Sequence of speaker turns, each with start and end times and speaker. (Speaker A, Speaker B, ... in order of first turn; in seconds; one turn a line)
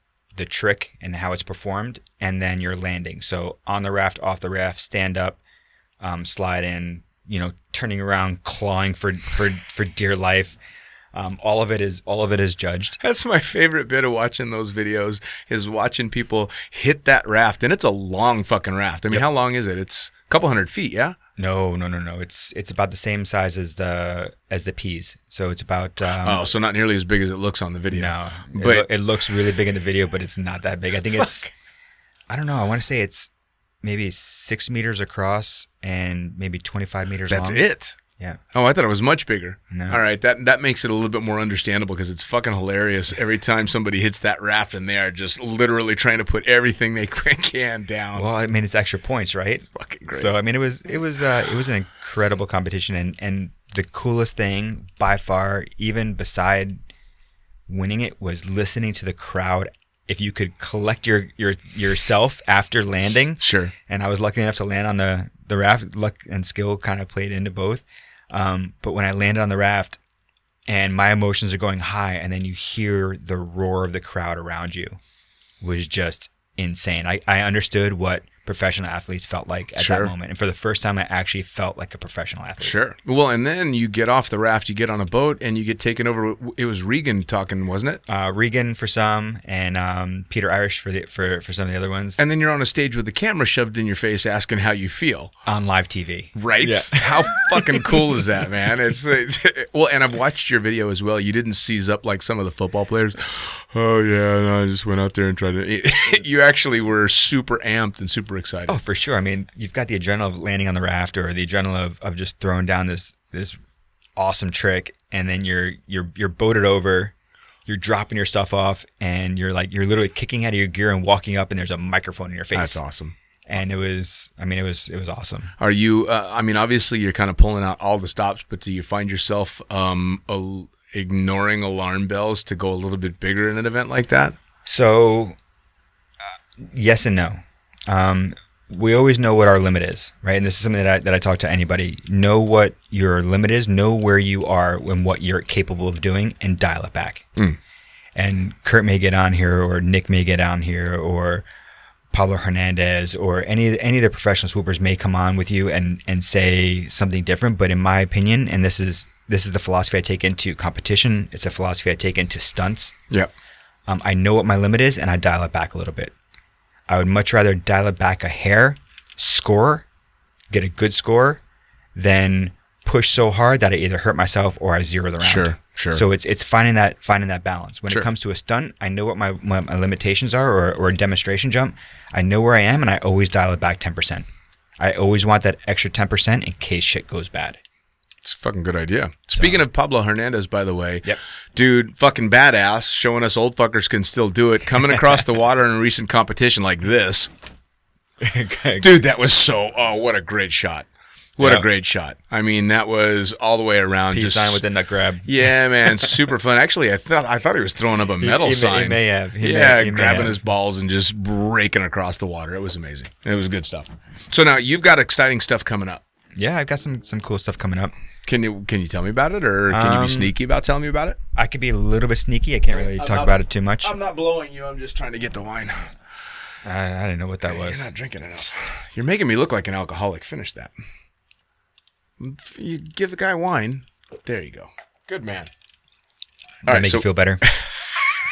Speaker A: 0.4-5.4
Speaker A: 6.0-10.6
Speaker A: 11.1-13.0
Speaker B: 13.0-21.2
Speaker A: 21.4-26.5
Speaker B: 26.2-28.9
Speaker A: 27.9-31.5
Speaker B: 31.2-31.5
Speaker A: 32.3-33.3
Speaker A: 33.8-38.4
Speaker B: 37.3-38.0
Speaker B: 38.5-48.3
Speaker A: 39.7-40.0
Speaker A: 48.1-56.8
Speaker B: 49.7-50.3
Speaker A: 57.7-70.0
Speaker B: 63.4-63.7
Speaker A: 70.7-75.0
Speaker A: 75.6-82.8
Speaker B: 79.8-80.1
Speaker B: 82.6-88.0
Speaker A: 88.1-92.2
Speaker B: 92.2-95.3
Speaker A: 95.5-97.8
Speaker B: 96.3-108.8
Speaker A: 108.7-113.6
Speaker A: 114.2-117.1
Speaker A: 117.7-122.8
Speaker B: 122.5-123.2
Speaker A: 123.5-125.5
Speaker B: 125.6-134.4
Speaker A: 134.7-135.4
Speaker A: 136.6-147.3
Speaker A: 148.2-151.4
Speaker A: 152.1-162.9
Speaker A: 163.9-166.1
Speaker A: 166.9-169.8
Speaker A: 170.5-171.4
Speaker A: 171.9-184.3
Speaker B: 175.2-176.0
Speaker A: 184.8-187.6
Speaker B: 188.2-197.3
Speaker A: 189.4-189.6
Speaker A: 198.2-198.9
Speaker B: 198.8-204.6
Speaker A: 204.1-205.3
Speaker B: 205.2-216.0
Speaker A: 208.2-210.4
Speaker A: 216.4-217.9
Speaker B: 218.3-221.2
Speaker A: 219.7-220.3
Speaker A: 221.3-223.9
Speaker B: 222.7-226.0
Speaker A: 226.6-227.9
Speaker B: 227.5-230.7
Speaker B: 232.2-235.5
Speaker A: 236.7-237.4
Speaker B: 236.7-238.0